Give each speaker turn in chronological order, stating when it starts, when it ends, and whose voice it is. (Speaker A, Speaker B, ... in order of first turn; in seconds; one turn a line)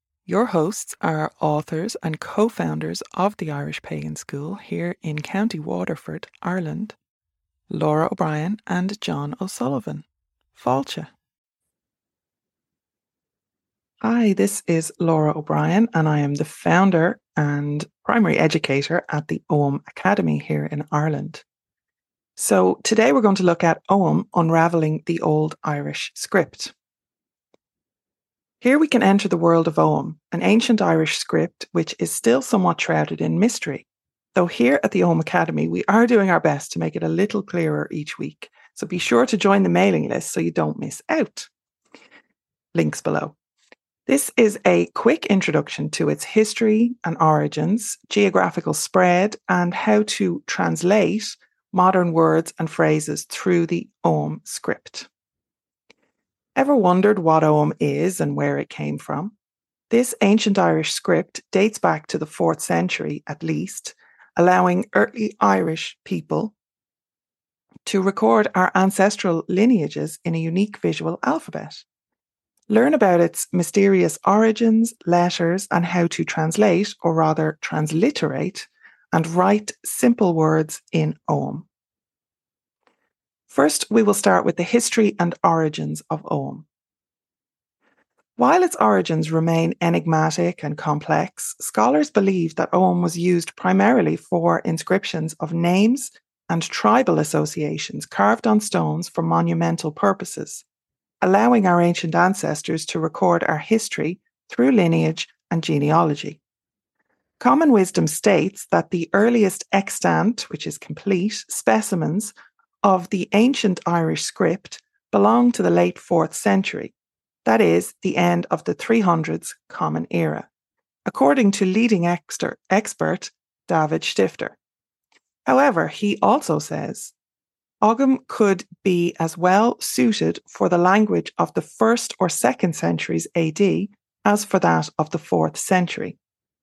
Speaker A: 0.2-7.0
Speaker A: 7.7-11.1
Speaker A: 14.0-21.4
Speaker A: 22.4-26.7
Speaker A: 28.6-41.5
Speaker A: 42.7-43.4
Speaker A: 44.1-55.1
Speaker A: 56.5-59.3
Speaker A: 59.9-66.5
Speaker A: 67.9-71.8
Speaker A: 72.7-81.7
Speaker A: 83.5-86.7
Speaker A: 88.4-100.6
Speaker A: 101.2-106.4
Speaker A: 107.4-112.3
Speaker A: 112.8-116.9
Speaker A: 117.4-120.5
Speaker A: 121.0-124.6
Speaker A: 125.5-127.1
Speaker A: 127.8-136.2